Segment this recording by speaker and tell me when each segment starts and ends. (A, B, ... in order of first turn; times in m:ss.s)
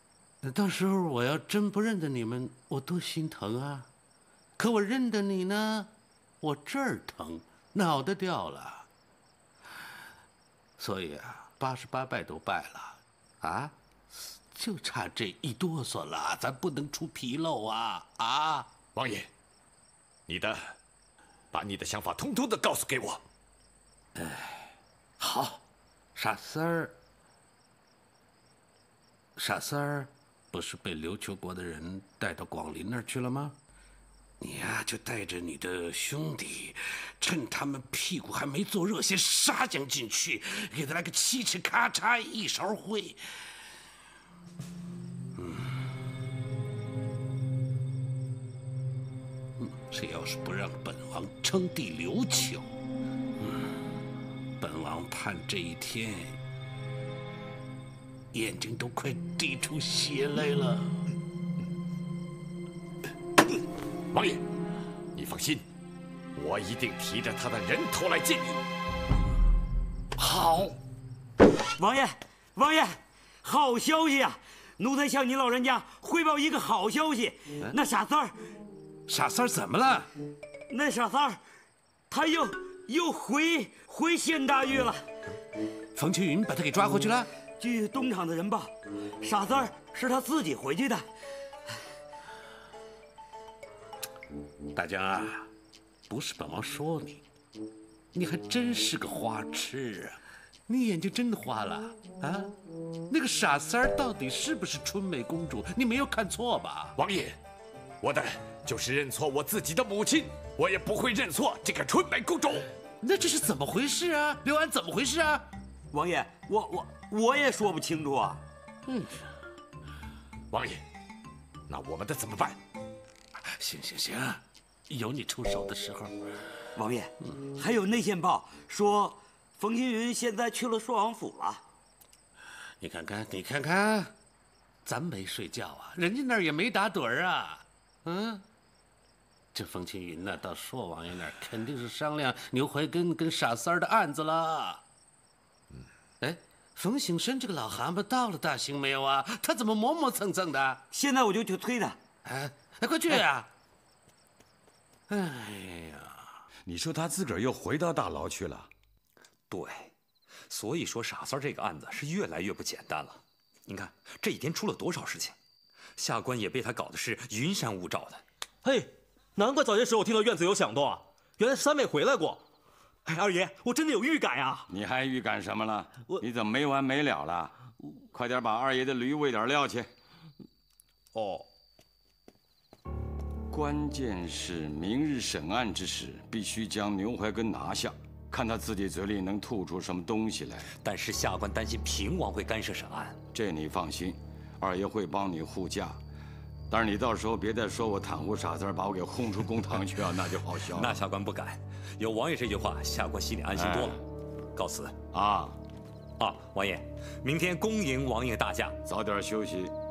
0:00.4-0:03.9 A
0:04.6-0:08.8 A
0:10.8-0:13.7 A
0:14.5-0:18.7 A
0:18.9-0:19.3 B
0:20.3-0:20.7 B
0:21.5-0:23.2 B
0:24.2-0:25.6 A
0:26.1-0:26.9 A
0:29.4-0:33.6 A
0:34.4-0:43.2 A
0:45.4-0:45.7 A
0:49.6-0:52.7 A
0:54.6-0:56.4 A
0:58.3-1:01.0 A
1:04.1-1:04.4 B
1:05.1-1:05.6 B
1:06.3-1:08.6 B
1:10.2-1:10.7 A
1:11.8-1:18.3 C
1:19.1-1:20.1 A
1:20.7-1:21.4 C
1:22.1-1:25.0 C
1:25.9-1:27.3 A
1:27.6-1:28.7 C
1:29.2-1:31.0 C
1:34.7-1:35.5 A
1:36.1-1:37.2 A
1:38.1-1:42.5 A
1:43.1-1:47.0 A
1:47.0-1:47.4 B
1:48.0-1:52.7 B
1:53.0-1:55.4 A
1:55.9-1:58.4 C
1:58.9-1:59.2 A
2:00.5-2:00.8 B
2:01.7-2:02.6 B
2:03.6-2:06.1 A
2:06.8-2:11.6 C
2:12.8-2:14.1 A
2:14.8-2:18.4 A
2:19.5-2:24.8 A
2:26.2-2:30.8 A
2:30.9-2:32.0 C
2:32.3-2:33.5 A
2:35.1-2:36.3 A
2:36.6-2:38.7 D
2:39.5-2:39.9 E
2:40.5-2:45.3 E
2:46.0-2:48.2 E
2:48.6-2:52.4 F
2:53.0-2:54.6 F
2:54.7-2:57.6 D
2:58.1-2:59.9 D
3:01.1-3:01.5 F
3:03.5-3:10.7 D
3:10.8-3:13.2 E
3:13.3-3:16.0 D
3:16.7-3:21.0 D
3:20.7-3:24.0 E
3:23.6-3:24.0 D
3:24.6-3:24.9 E
3:25.1-3:25.6 D
3:26.2-3:28.8 E
3:28.8-3:29.7 D